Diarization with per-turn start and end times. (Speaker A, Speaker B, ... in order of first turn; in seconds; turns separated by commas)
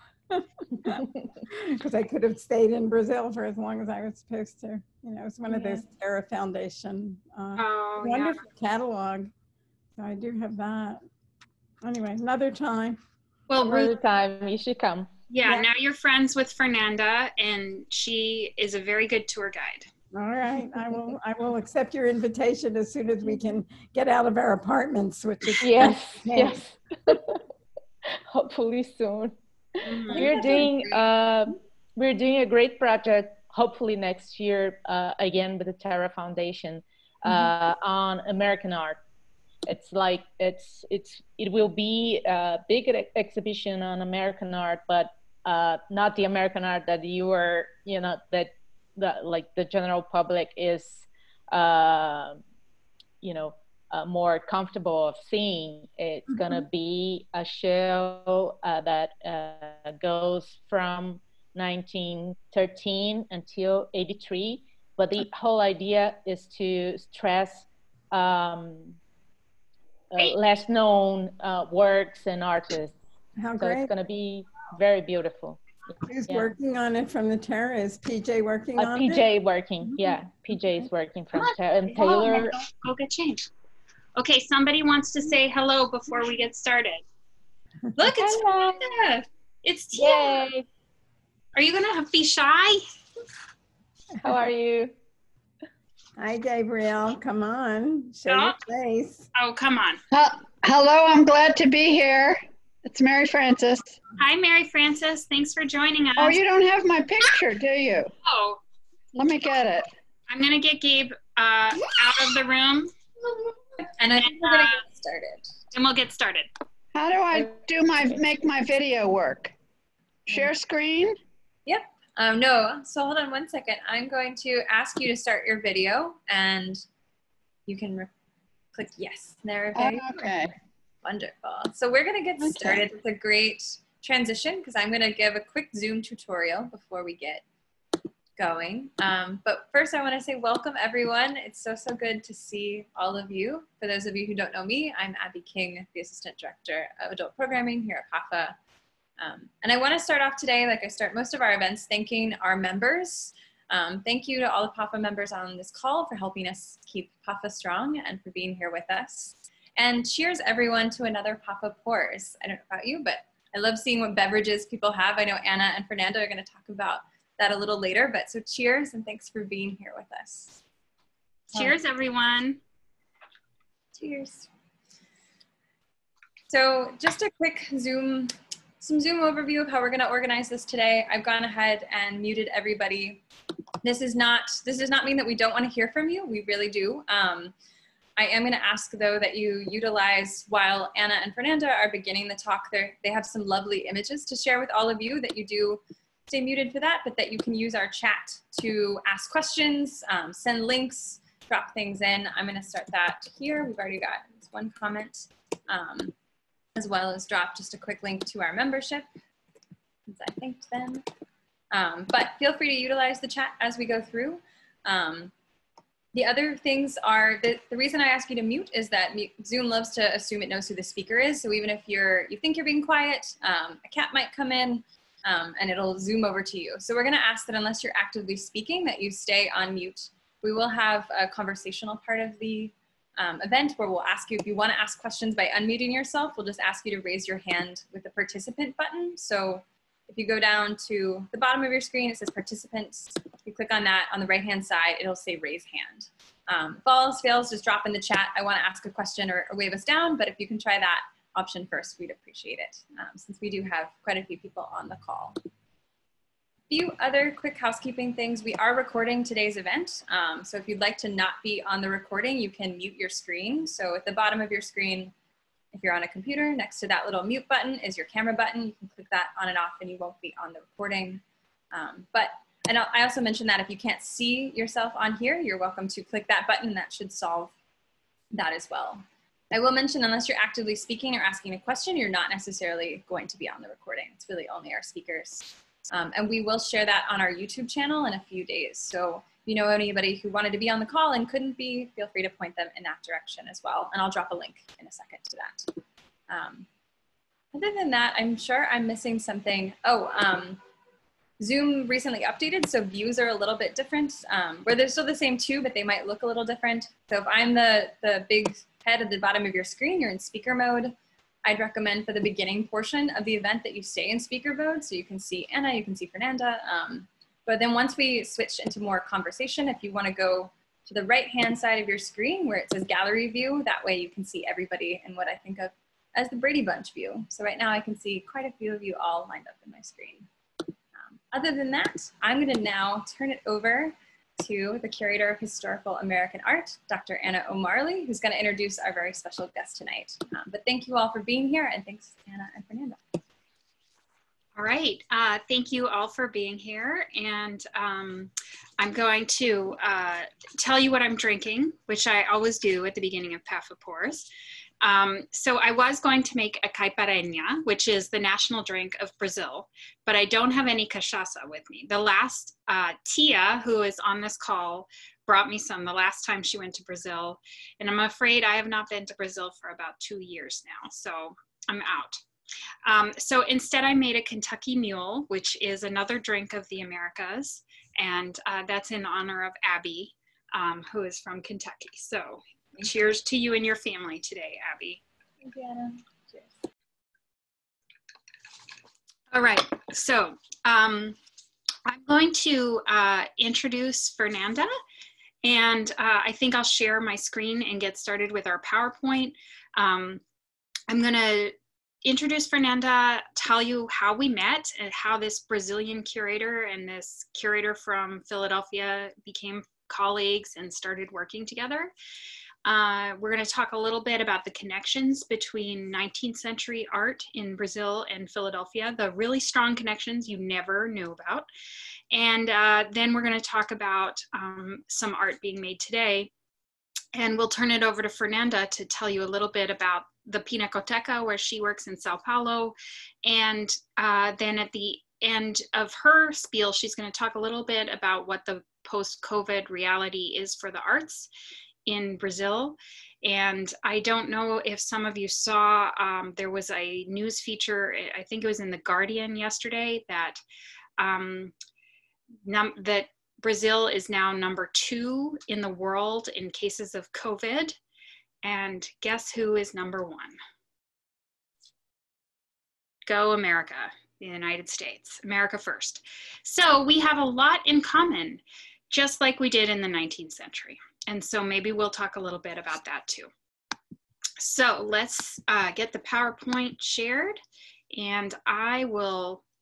Speaker A: 0.3-9.3, Speaker B: 7.6-8.4, Speaker A: 10.0-11.0, Speaker A: 11.8-13.0, Speaker B: 13.5-13.9, Speaker C: 13.6-15.1, Speaker B: 15.3-19.9, Speaker A: 20.1-26.6, Speaker C: 25.6-27.4, Speaker C: 28.1-39.0, Speaker B: 29.9-30.3, Speaker D: 30.1-31.0, Speaker C: 39.6-52.4, Speaker C: 53.2-69.0, Speaker C: 70.1-72.9, Speaker A: 73.4-73.9, Speaker C: 73.6-75.6, Speaker A: 76.0-79.2, Speaker C: 76.2-76.5, Speaker C: 78.8-82.5, Speaker B: 81.3-83.5, Speaker B: 84.2-87.0, Speaker B: 88.0-90.5, Speaker C: 88.0-88.9, Speaker C: 89.9-90.7, Speaker B: 91.5-92.8, Speaker C: 94.2-94.9, Speaker A: 96.2-99.3, Speaker B: 98.2-98.6, Speaker B: 99.3-100.0, Speaker E: 100.1-104.0, Speaker B: 104.2-106.4, Speaker E: 106.2-108.1, Speaker B: 108.2-108.6, Speaker E: 109.1-109.9, Speaker B: 110.3-112.9, Speaker D: 114.0-115.5, Speaker B: 114.2-114.8, Speaker B: 115.7-116.5, Speaker E: 116.9-119.5, Speaker E: 120.3-121.2, Speaker D: 121.7-126.8, Speaker D: 127.7-128.1, Speaker D: 128.7-130.5, Speaker E: 129.7-130.5, Speaker D: 131.0-137.4, Speaker D: 138.4-148.6, Speaker D: 149.2-170.6, Speaker B: 171.5-172.6, Speaker D: 173.9-174.5, Speaker D: 176.5-183.2, Speaker D: 183.8-187.5, Speaker D: 188.2-206.1, Speaker D: 206.7-209.1, Speaker D: 210.1-211.0, Speaker D: 211.7-215.3, Speaker D: 216.1-255.4, Speaker D: 256.7-265.1, Speaker D: 265.7-277.5, Speaker D: 278.3-295.7, Speaker D: 296.3-296.7, Speaker D: 297.5-300.6, Speaker D: 301.4-330.3, Speaker D: 331.3-343.2, Speaker B: 344.6-354.3, Speaker B: 354.8-372.2, Speaker B: 372.8-385.0, Speaker D: 385.4-386.5, Speaker B: 389.3-391.2, Speaker B: 391.9-394.7, Speaker B: 395.4-400.2, Speaker B: 400.9-411.9, Speaker B: 412.6-421.5, Speaker B: 422.1-426.3, Speaker B: 427.1-441.3, Speaker B: 441.9-450.4, Speaker B: 451.0-451.5, Speaker B: 452.4-457.8, Speaker B: 458.4-460.4, Speaker B: 463.0-473.3, Speaker B: 474.4-477.4, Speaker B: 477.9-479.4